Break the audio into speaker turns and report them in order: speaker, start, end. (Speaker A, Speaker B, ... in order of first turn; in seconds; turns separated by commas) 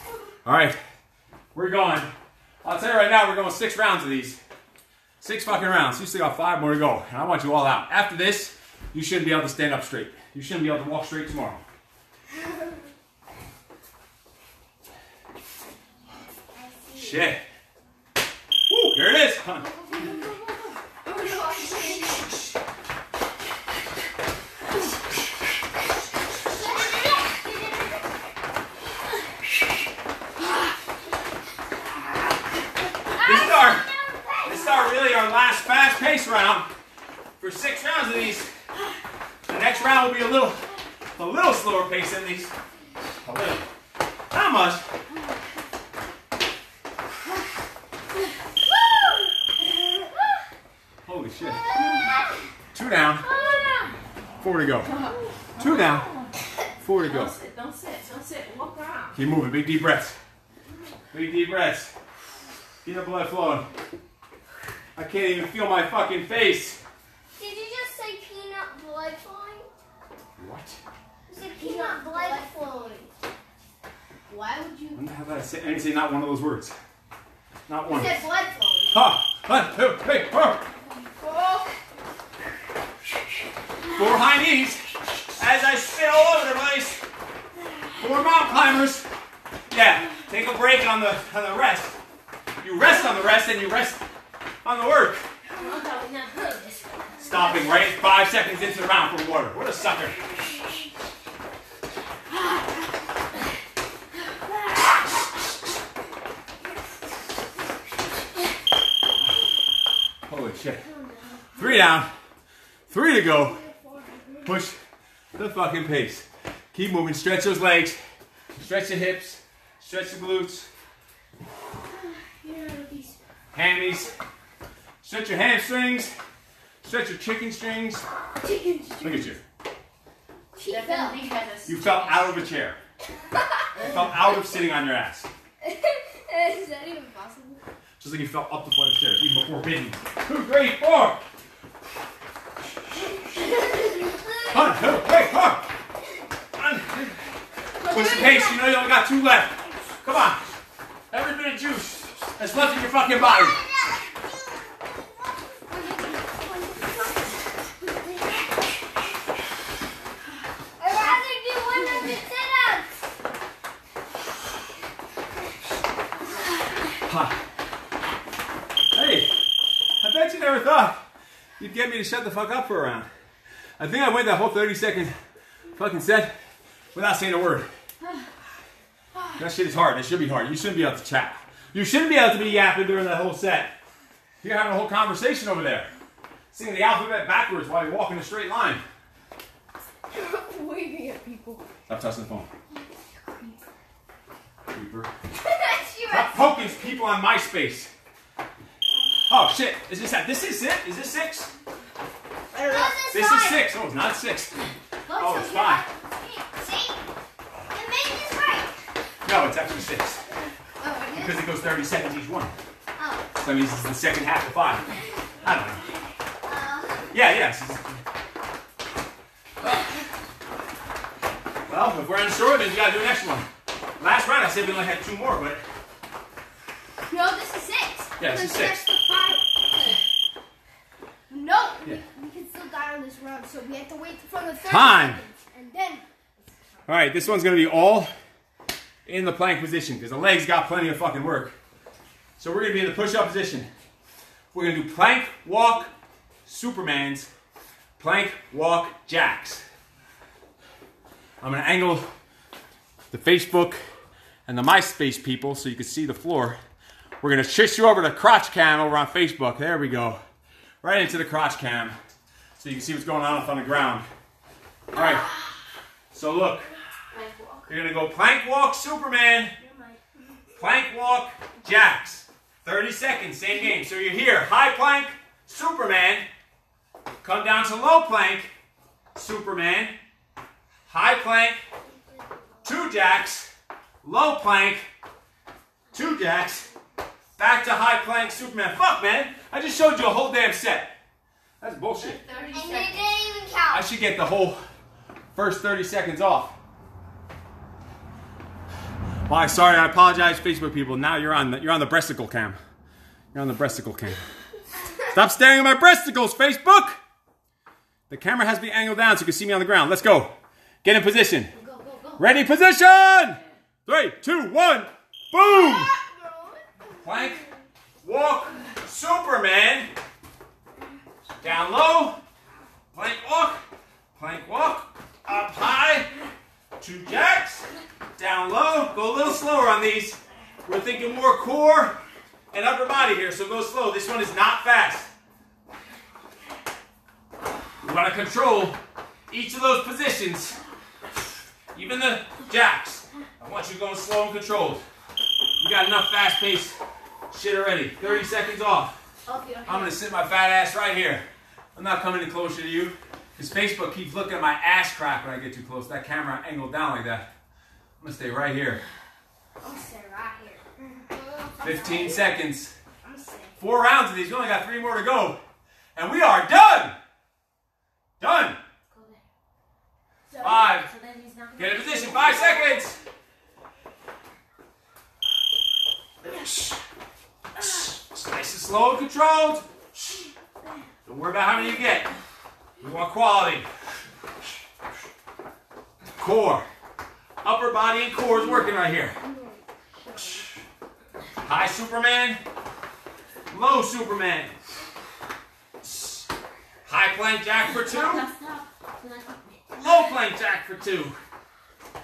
Speaker A: 0.4-0.8, Speaker A: 1.5-2.1, Speaker A: 2.6-4.4, Speaker A: 5.2-11.6, Speaker B: 16.5-17.2, Speaker A: 16.9-17.4, Speaker A: 18.7-19.7, Speaker B: 19.6-22.2, Speaker B: 26.5-28.1, Speaker B: 33.2-35.0, Speaker A: 33.2-33.9, Speaker A: 34.4-36.7, Speaker A: 37.4-38.5, Speaker A: 39.5-42.5, Speaker A: 43.2-43.6, Speaker A: 44.3-44.8, Speaker B: 48.7-49.3, Speaker A: 51.0-51.7, Speaker B: 51.5-52.3, Speaker C: 51.7-52.1, Speaker A: 52.7-53.3, Speaker C: 53.2-54.0, Speaker A: 54.4-54.9, Speaker C: 54.8-56.3, Speaker A: 55.6-56.1, Speaker A: 56.8-57.3, Speaker C: 57.0-59.1, Speaker A: 59.1-60.2, Speaker A: 61.1-61.9, Speaker A: 62.8-63.7, Speaker A: 65.0-66.8, Speaker B: 67.3-69.7, Speaker A: 70.4-70.8, Speaker B: 71.3-73.1, Speaker C: 71.7-72.5, Speaker B: 74.3-75.0, Speaker A: 74.9-76.8, Speaker A: 77.7-78.2, Speaker B: 77.9-78.9, Speaker A: 78.9-80.6, Speaker B: 81.2-81.7, Speaker A: 83.9-84.8, Speaker A: 85.4-87.0, Speaker A: 88.0-89.1, Speaker A: 89.7-92.0, Speaker A: 92.6-94.0, Speaker A: 94.6-95.3, Speaker C: 95.5-97.5, Speaker A: 97.2-100.2, Speaker A: 110.2-110.8, Speaker B: 110.9-111.9, Speaker A: 111.5-112.1, Speaker A: 112.9-113.6, Speaker B: 113.3-114.5, Speaker A: 114.4-114.8, Speaker A: 115.3-118.0, Speaker A: 118.5-120.7, Speaker B: 121.9-123.2, Speaker A: 123.5-124.1, Speaker A: 125.0-126.1, Speaker A: 126.8-128.1, Speaker B: 128.4-129.3, Speaker A: 129.0-129.4, Speaker B: 130.5-131.2, Speaker C: 130.6-132.4, Speaker A: 131.6-132.8, Speaker A: 133.8-135.3, Speaker B: 135.6-137.6, Speaker A: 138.0-141.2, Speaker B: 143.5-144.9, Speaker A: 144.5-145.7, Speaker A: 146.6-147.2, Speaker A: 147.8-150.4, Speaker B: 147.8-148.6, Speaker A: 151.1-153.6, Speaker B: 153.1-157.4, Speaker B: 160.8-162.9, Speaker C: 161.7-162.2, Speaker A: 167.1-167.4, Speaker A: 168.9-169.4, Speaker A: 170.0-171.0, Speaker A: 171.6-173.1, Speaker A: 173.8-175.1, Speaker A: 175.8-176.3, Speaker A: 176.9-177.7, Speaker A: 179.3-183.7, Speaker A: 184.4-185.9, Speaker A: 186.5-188.8, Speaker C: 190.1-191.7, Speaker A: 191.9-192.5, Speaker C: 193.1-193.6, Speaker A: 194.7-195.1, Speaker B: 195.4-196.8, Speaker A: 196.1-197.9, Speaker A: 199.3-201.5, Speaker B: 202.5-203.6, Speaker C: 202.6-202.9, Speaker A: 203.1-204.5, Speaker C: 205.1-205.8, Speaker A: 205.1-205.8, Speaker B: 205.1-207.0, Speaker B: 207.7-208.8, Speaker A: 209.2-210.2, Speaker B: 210.8-211.4, Speaker A: 211.1-212.5, Speaker B: 213.0-213.2, Speaker A: 213.4-214.9, Speaker A: 215.4-215.9, Speaker B: 216.4-217.1, Speaker A: 217.1-218.0, Speaker A: 221.7-223.5, Speaker A: 224.0-225.6, Speaker B: 227.1-230.0, Speaker A: 228.2-228.8, Speaker B: 231.3-236.0, Speaker A: 234.6-235.2, Speaker A: 236.9-238.1, Speaker A: 239.1-241.5, Speaker A: 242.4-243.7, Speaker A: 244.5-245.9, Speaker A: 246.4-247.3, Speaker A: 248.0-249.6, Speaker A: 251.4-252.1, Speaker A: 253.1-253.8, Speaker A: 254.5-256.6, Speaker A: 257.2-260.2, Speaker A: 260.8-261.9, Speaker A: 262.6-264.1, Speaker A: 264.9-265.3, Speaker C: 264.9-265.3, Speaker A: 266.1-266.7, Speaker C: 267.1-267.7, Speaker A: 267.7-269.6, Speaker B: 269.6-270.3, Speaker A: 270.6-276.3, Speaker A: 277.2-278.5, Speaker A: 279.1-279.9, Speaker A: 280.9-281.6, Speaker B: 281.9-282.8, Speaker A: 282.6-284.9, Speaker A: 285.9-286.7, Speaker A: 287.4-290.9, Speaker A: 291.6-292.2, Speaker C: 292.0-293.1, Speaker B: 292.5-293.8, Speaker A: 293.7-294.6, Speaker A: 295.3-296.5, Speaker A: 299.3-302.6, Speaker A: 303.3-304.2, Speaker A: 305.0-307.0, Speaker A: 308.1-311.5, Speaker C: 311.5-312.2, Speaker A: 312.2-315.9, Speaker B: 315.4-317.5, Speaker A: 317.0-317.4, Speaker A: 318.0-319.9, Speaker A: 321.4-322.2, Speaker A: 322.9-323.6, Speaker A: 324.1-326.1, Speaker A: 326.8-332.0, Speaker A: 332.5-335.1, Speaker A: 337.8-338.8, Speaker A: 339.3-340.6, Speaker A: 341.7-344.8, Speaker A: 345.6-346.8, Speaker A: 347.3-349.0, Speaker C: 349.2-349.9, Speaker A: 349.6-357.3, Speaker A: 358.0-358.8, Speaker B: 359.6-362.2, Speaker A: 361.6-362.7, Speaker B: 363.0-363.6, Speaker A: 363.6-365.4, Speaker A: 365.9-366.9, Speaker A: 368.2-368.6, Speaker C: 368.9-369.2, Speaker B: 370.3-370.6, Speaker A: 370.4-370.9, Speaker C: 370.4-372.8, Speaker A: 371.6-373.0, Speaker A: 376.2-376.8, Speaker A: 377.6-380.2, Speaker A: 381.1-382.1, Speaker A: 382.8-383.6, Speaker A: 386.2-386.6, Speaker A: 387.4-389.2, Speaker B: 389.2-390.4, Speaker A: 391.4-392.4, Speaker A: 393.5-394.5, Speaker A: 395.8-396.2, Speaker A: 396.9-398.2, Speaker C: 397.6-400.1, Speaker A: 399.8-401.2